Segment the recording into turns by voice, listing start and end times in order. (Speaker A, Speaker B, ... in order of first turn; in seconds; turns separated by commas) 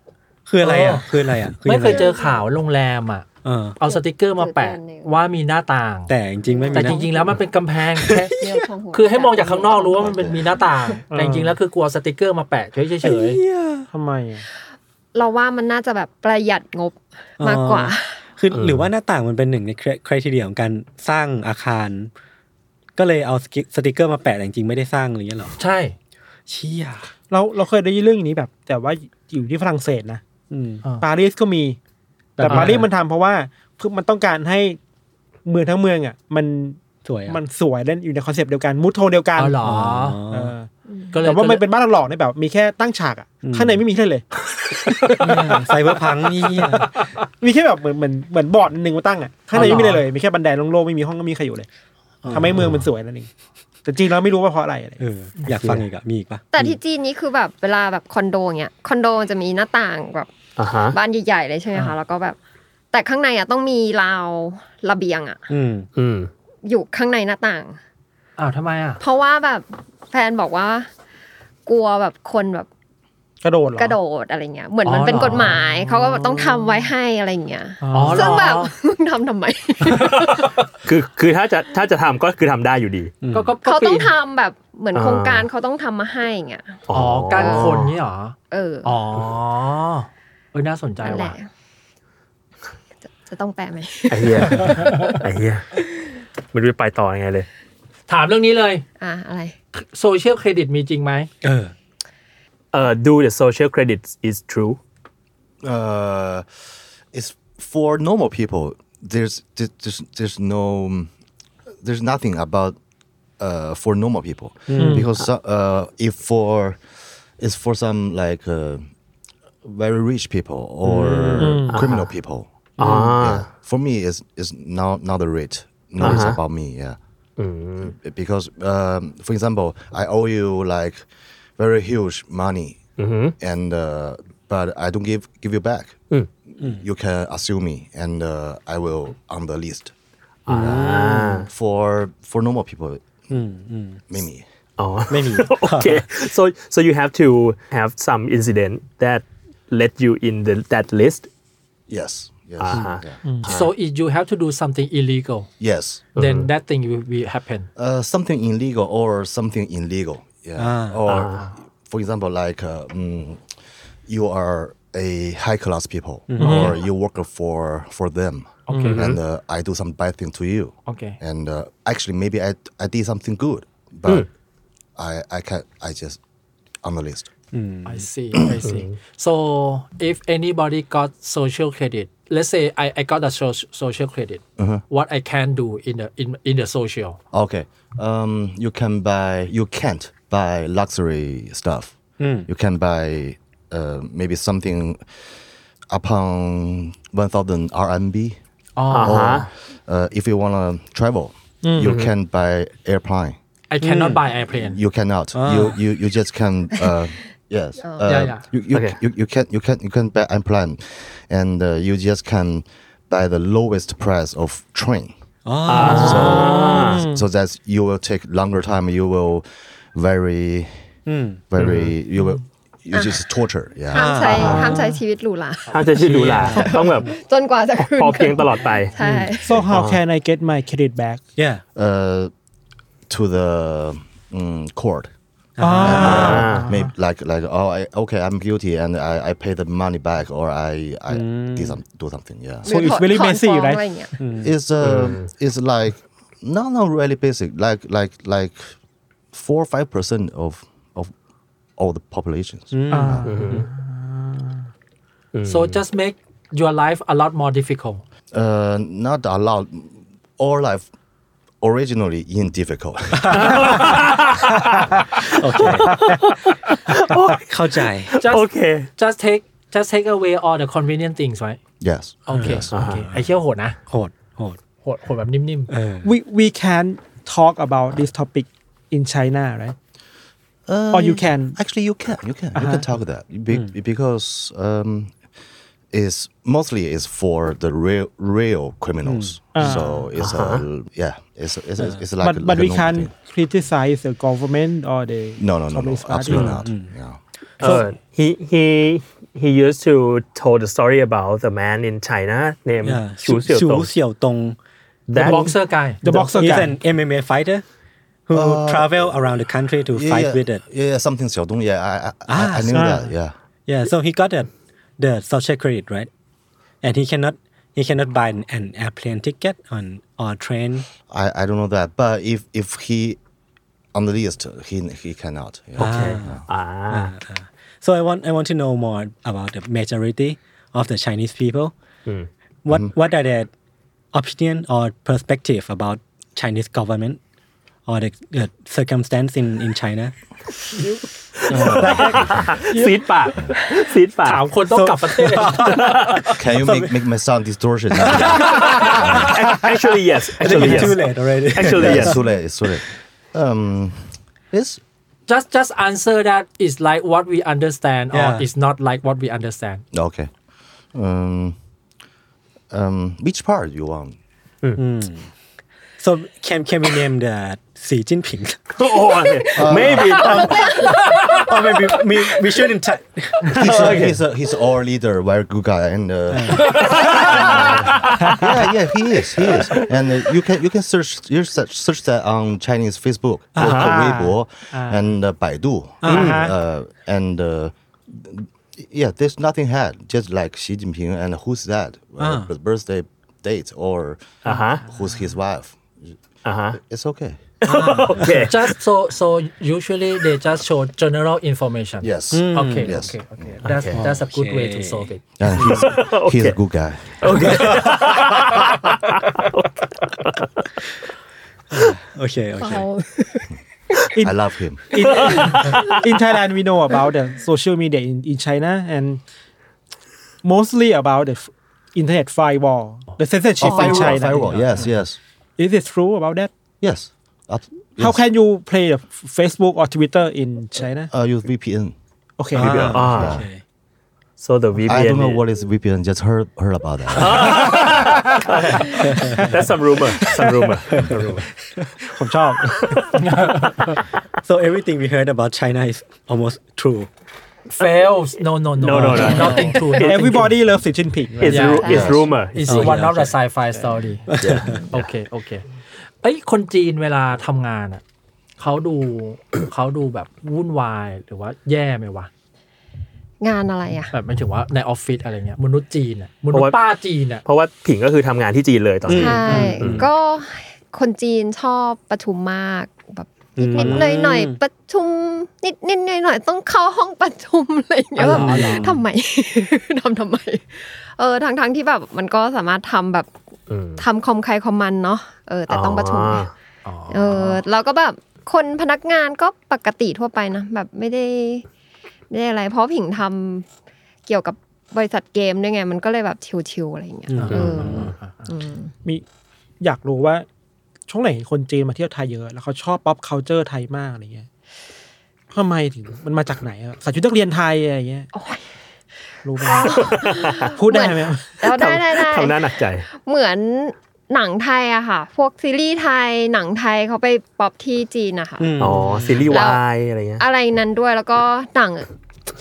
Speaker A: 0.5-2.1, Speaker B: 0.6-6.1, Speaker C: 1.9-2.4, Speaker A: 3.4-3.8, Speaker C: 3.8-5.1, Speaker A: 6.1-7.3, Speaker C: 6.4-7.1, Speaker B: 6.7-8.4, Speaker A: 8.0-8.6, Speaker C: 8.4-10.2, Speaker B: 8.9-13.4, Speaker D: 10.0-10.5, Speaker E: 11.1-11.6, Speaker A: 13.0-13.9, Speaker E: 13.9-14.4, Speaker C: 15.2-18.2, Speaker A: 17.4-22.1, Speaker F: 18.5-18.9, Speaker A: 23.0-25.5, Speaker B: 25.6-25.9, Speaker A: 26.5-27.1, Speaker E: 27.3-30.2, Speaker A: 30.5-30.9, Speaker E: 31.0-31.8, Speaker E: 32.4-34.8, Speaker A: 32.4-32.9, Speaker B: 32.5-32.9, Speaker E: 35.5-39.6, Speaker A: 37.0-37.4, Speaker B: 39.4-40.2, Speaker A: 39.6-40.5, Speaker E: 40.3-40.7, Speaker B: 41.1-41.6, Speaker E: 41.2-44.2, Speaker A: 43.4-43.8, Speaker E: 45.0-46.8, Speaker A: 45.2-46.9, Speaker B: 45.2-45.6, Speaker E: 47.4-51.7, Speaker B: 49.5-50.0, Speaker A: 49.6-49.9, Speaker A: 52.2-52.9, Speaker E: 52.3-53.3, Speaker E: 53.9-55.0, Speaker A: 55.0-56.8, Speaker F: 55.5-55.9, Speaker C: 56.5-60.3, Speaker F: 60.6-61.0, Speaker C: 60.9-62.4, Speaker C: 62.9-65.5, Speaker A: 65.5-65.9, Speaker F: 66.0-66.3, Speaker C: 66.7-67.8, Speaker B: 68.4-69.0, Speaker C: 69.0-70.9, Speaker C: 71.7-72.7, Speaker E: 73.4-74.0, Speaker C: 73.8-80.5, Speaker B: 74.8-76.5, Speaker E: 77.8-78.5, Speaker B: 77.9-78.7, Speaker B: 79.9-80.5, Speaker F: 80.8-83.1, Speaker A: 83.2-83.6, Speaker B: 83.3-84.1, Speaker C: 83.6-86.8, Speaker F: 84.9-85.5, Speaker F: 86.9-87.9, Speaker B: 86.9-91.4, Speaker C: 87.3-88.0, Speaker C: 88.5-89.0, Speaker C: 91.0-91.5, Speaker C: 93.2-94.9, Speaker F: 94.1-95.7, Speaker F: 96.5-97.5, Speaker B: 98.1-98.8, Speaker C: 99.0-99.5, Speaker B: 99.8-101.3, Speaker A: 101.4-101.7, Speaker F: 102.7-104.8, Speaker D: 105.6-106.5, Speaker D: 107.1-111.1, Speaker D: 111.8-112.8, Speaker D: 113.4-116.8, Speaker A: 114.7-115.1, Speaker E: 114.8-115.1, Speaker D: 117.4-118.9, Speaker D: 119.6-127.0, Speaker A: 120.8-121.5, Speaker F: 121.2-122.1, Speaker E: 121.4-121.8, Speaker F: 122.8-123.5, Speaker E: 122.8-123.2, Speaker F: 126.0-126.4, Speaker F: 127.4-127.9, Speaker D: 127.8-132.8, Speaker F: 133.0-133.3, Speaker D: 133.4-136.0, Speaker D: 136.6-139.9, Speaker A: 136.6-136.8, Speaker F: 140.5-141.5, Speaker D: 140.5-143.2, Speaker A: 140.5-141.5, Speaker A: 143.3-144.0, Speaker D: 144.1-144.4, Speaker F: 144.8-151.3, Speaker A: 145.1-146.1, Speaker D: 151.9-153.2, Speaker F: 152.6-153.7, Speaker E: 153.2-153.6, Speaker B: 153.4-155.5, Speaker D: 155.6-156.0, Speaker B: 156.2-157.7, Speaker F: 156.2-156.5, Speaker D: 157.8-163.4, Speaker A: 160.6-161.0, Speaker F: 161.1-161.5, Speaker D: 164.1-174.3, Speaker A: 166.3-166.7, Speaker E: 166.4-166.8, Speaker B: 168.7-169.0, Speaker E: 168.7-169.0, Speaker F: 168.8-169.2, Speaker B: 170.9-171.2, Speaker D: 175.0-176.2, Speaker D: 176.8-177.3, Speaker A: 177.5-178.1, Speaker B: 177.8-187.2, Speaker F: 178.7-178.9, Speaker D: 184.6-184.8, Speaker D: 187.3-195.2, Speaker A: 192.2-192.5, Speaker D: 195.9-198.4, Speaker B: 198.8-199.4, Speaker F: 198.9-199.5, Speaker D: 199.0-203.4, Speaker E: 201.6-201.9, Speaker F: 201.8-202.1, Speaker B: 203.7-204.8, Speaker A: 203.8-204.2, Speaker D: 204.5-215.2, Speaker A: 205.3-205.8, Speaker C: 207.8-208.1, Speaker B: 208.1-208.4, Speaker A: 215.4-216.9, Speaker F: 215.7-217.1, Speaker D: 215.8-220.8, Speaker E: 216.3-217.2, Speaker A: 221.1-221.4, Speaker D: 221.5-224.3, Speaker F: 221.6-221.9, Speaker C: 222.9-223.2, Speaker C: 223.9-225.9, Speaker A: 223.9-224.7, Speaker E: 224.4-225.0, Speaker F: 225.7-227.1, Speaker A: 226.0-227.1, Speaker C: 226.5-229.6, Speaker F: 227.8-228.9, Speaker A: 229.0-229.3, Speaker E: 229.4-231.2, Speaker F: 229.7-230.0, Speaker A: 231.4-231.6, Speaker D: 231.8-232.3, Speaker D: 233.1-235.1, Speaker A: 235.6-236.5, Speaker E: 235.6-236.9, Speaker D: 235.8-242.7, Speaker F: 235.9-236.7, Speaker A: 241.1-241.8, Speaker E: 242.7-243.8, Speaker C: 242.7-244.2, Speaker A: 244.2-244.5, Speaker D: 244.4-248.8, Speaker F: 244.8-245.3, Speaker D: 249.3-251.1, Speaker D: 251.8-253.3, Speaker A: 252.7-253.6, Speaker E: 252.9-254.7, Speaker F: 253.3-253.7, Speaker F: 255.3-255.8, Speaker B: 255.5-258.0, Speaker D: 258.3-260.9, Speaker D: 261.6-263.8, Speaker A: 263.2-263.7, Speaker F: 263.3-264.9, Speaker A: 265.3-266.1, Speaker F: 265.6-267.4, Speaker A: 267.3-268.2, Speaker F: 268.1-268.9, Speaker B: 268.2-271.6, Speaker D: 271.8-272.7, Speaker B: 272.3-273.8, Speaker A: 272.3-272.7, Speaker F: 272.7-273.1, Speaker A: 273.9-274.6, Speaker B: 274.8-275.7, Speaker A: 275.7-276.1, Speaker E: 276.0-279.8, Speaker D: 280.7-285.2, Speaker E: 280.9-281.6, Speaker D: 285.9-293.1, Speaker A: 289.1-290.1, Speaker E: 289.5-289.9, Speaker F: 290.2-290.6, Speaker A: 291.8-292.1, Speaker E: 292.2-296.6, Speaker D: 295.4-297.2, Speaker A: 296.3-296.9, Speaker F: 297.6-303.9, Speaker A: 302.8-304.6, Speaker F: 305.1-305.5, Speaker B: 305.2-306.0, Speaker A: 305.2-305.5, Speaker E: 306.0-306.8, Speaker A: 306.1-307.6, Speaker A: 308.3-310.6, Speaker D: 308.3-309.2, Speaker D: 309.9-313.3, Speaker A: 312.3-312.8, Speaker E: 312.7-313.1, Speaker A: 313.7-316.1, Speaker A: 316.8-320.9, Speaker D: 321.1-323.2, Speaker D: 323.9-326.4, Speaker F: 325.8-327.1, Speaker A: 325.8-331.7, Speaker A: 332.6-333.5, Speaker D: 332.7-332.9, Speaker A: 334.1-337.2, Speaker A: 337.9-340.1, Speaker F: 341.5-344.5, Speaker A: 341.5-342.4, Speaker D: 341.5-342.5, Speaker E: 341.8-343.1, Speaker B: 344.3-346.0, Speaker A: 344.6-346.9, Speaker F: 345.6-346.3, Speaker D: 346.4-349.4, Speaker A: 347.9-349.3, Speaker F: 349.3-352.2, Speaker A: 350.4-352.2, Speaker D: 350.4-351.0, Speaker D: 351.6-354.8, Speaker B: 355.3-359.8, Speaker A: 358.1-358.5, Speaker D: 359.9-360.3, Speaker D: 360.9-361.6, Speaker D: 362.7-364.2, Speaker A: 364.8-365.3, Speaker A: 366.0-368.7, Speaker F: 368.8-370.6, Speaker C: 368.9-371.7, Speaker D: 369.6-370.3, Speaker A: 369.8-374.1, Speaker D: 373.6-396.1, Speaker F: 373.6-374.2, Speaker A: 376.3-376.8, Speaker F: 377.0-378.1, Speaker A: 383.6-383.9, Speaker F: 383.6-383.9, Speaker E: 383.7-385.1, Speaker A: 386.0-386.5, Speaker F: 386.1-386.4, Speaker E: 386.1-386.5, Speaker A: 392.2-392.5, Speaker F: 394.4-394.8, Speaker E: 394.5-394.9, Speaker F: 396.4-396.8, Speaker D: 396.7-397.5, Speaker F: 397.6-398.7, Speaker A: 397.6-398.3, Speaker B: 398.5-405.2, Speaker D: 402.0-403.6, Speaker A: 402.3-403.1, Speaker F: 403.6-404.0, Speaker A: 403.9-405.1, Speaker D: 405.4-407.8, Speaker F: 405.6-406.6, Speaker F: 407.2-410.5, Speaker A: 407.4-408.1, Speaker A: 411.7-412.9, Speaker C: 412.6-413.4, Speaker D: 414.2-415.3, Speaker E: 414.9-419.2, Speaker F: 415.1-416.0, Speaker E: 420.4-424.6, Speaker D: 423.6-425.2, Speaker E: 425.6-426.5, Speaker D: 426.8-428.2, Speaker E: 428.0-431.1, Speaker D: 431.1-432.0, Speaker E: 432.4-432.9, Speaker F: 432.6-433.4, Speaker D: 432.6-433.5, Speaker A: 432.7-433.6, Speaker F: 434.4-435.4, Speaker D: 434.9-437.8, Speaker F: 437.1-441.5, Speaker A: 438.9-439.6, Speaker A: 440.3-441.3, Speaker E: 442.1-443.2, Speaker B: 443.2-444.0, Speaker A: 444.4-447.1, Speaker B: 447.7-450.5, Speaker F: 448.8-450.5, Speaker A: 449.0-449.3, Speaker E: 449.3-451.8, Speaker F: 451.4-453.1, Speaker B: 451.4-454.3, Speaker C: 451.8-452.4, Speaker D: 451.9-452.2, Speaker A: 452.6-453.3, Speaker A: 454.3-454.8, Speaker D: 454.4-454.8, Speaker B: 454.9-455.6, Speaker B: 456.2-458.0, Speaker B: 458.6-462.3, Speaker C: 463.4-464.1, Speaker B: 464.1-467.4, Speaker F: 466.5-466.8, Speaker F: 467.4-470.1, Speaker A: 469.1-470.1, Speaker C: 469.1-483.3, Speaker A: 473.6-474.6, Speaker A: 478.2-479.0, Speaker B: 478.2-479.0, Speaker F: 483.7-484.1, Speaker C: 484.0-486.5, Speaker F: 485.7-486.5, Speaker B: 486.9-487.6, Speaker C: 487.1-491.6, Speaker C: 492.3-493.7, Speaker C: 494.3-498.9, Speaker A: 497.3-498.1, Speaker B: 497.4-498.5, Speaker E: 499.8-500.5, Speaker E: 501.1-504.5, Speaker E: 505.5-508.3, Speaker C: 508.3-508.6, Speaker E: 509.4-511.6, Speaker C: 509.6-519.8, Speaker F: 509.9-510.7, Speaker F: 511.6-513.1, Speaker A: 518.6-519.5, Speaker F: 518.8-520.5, Speaker C: 520.4-522.1